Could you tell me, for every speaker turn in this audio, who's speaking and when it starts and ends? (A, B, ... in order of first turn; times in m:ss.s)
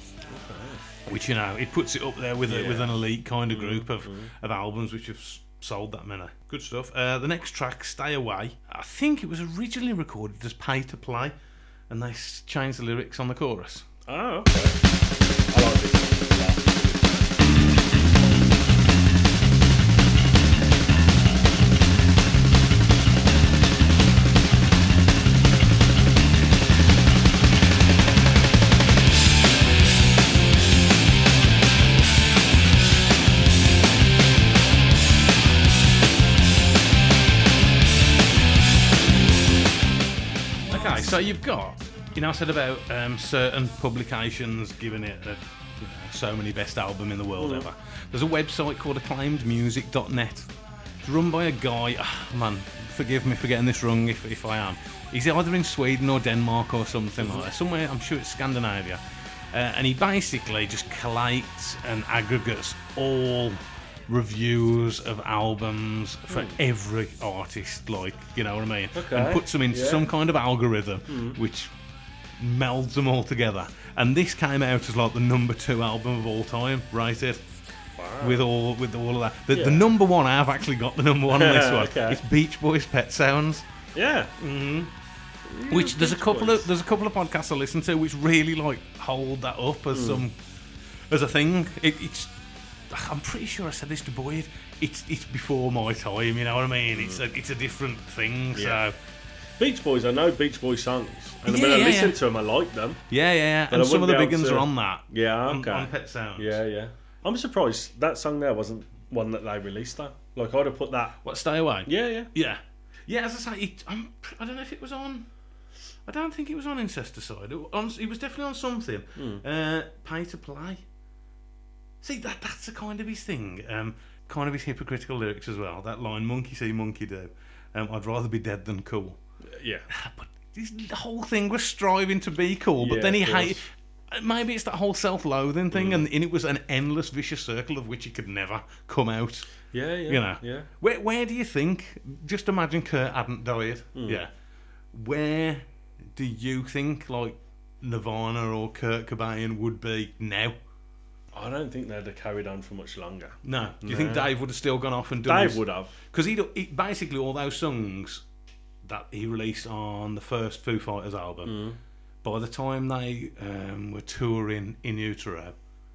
0:00.3-0:00.8 A
0:01.1-0:11.3 B
0:02.4-0:03.0 A
0:03.5-0:04.3 A
0:11.9-0:13.8 B
0:14.1-0:14.8 A
0:15.5-0:17.4 A
0:40.7-0:50.5 B
0:47.4-0:47.7 A
0:51.0-0:59.0 B
0:57.2-0:57.4 A
0:59.5-1:11.7 B
1:06.3-1:06.6 A
1:08.9-1:10.1 A
1:11.1-1:11.4 A
1:12.4-1:17.4 B
1:18.0-1:18.4 A
1:18.2-1:23.6 B
1:19.5-1:19.8 A
1:21.3-1:22.2 A
1:23.9-1:24.3 A
1:24.4-1:24.9 B
1:25.5-1:26.7 A
1:25.7-1:30.4 B
1:29.9-1:30.2 A
1:31.1-1:32.3 B
1:32.9-1:39.0 B
1:36.9-1:37.2 A
1:38.5-1:38.8 A
1:39.6-1:43.0 A
1:41.4-1:42.2 B
1:43.1-1:46.6 B
1:43.7-1:51.2 A
1:51.2-1:55.3 B
1:51.8-1:52.3 A
1:56.0-2:00.8 B
1:59.2-1:59.4 A
2:02.0-2:09.2 B
2:09.5-2:09.9 A
2:09.9-2:19.5 B
2:12.8-2:13.6 A
2:15.7-2:16.0 A
2:19.7-2:20.7 A
2:20.1-2:24.3 B
2:23.9-2:24.2 A
2:24.9-2:30.6 B
2:31.3-2:34.3 A
2:33.4-2:38.2 B
2:35.2-2:36.0 A
2:38.8-2:41.5 B
2:41.4-2:41.8 A
2:42.2-2:45.5 B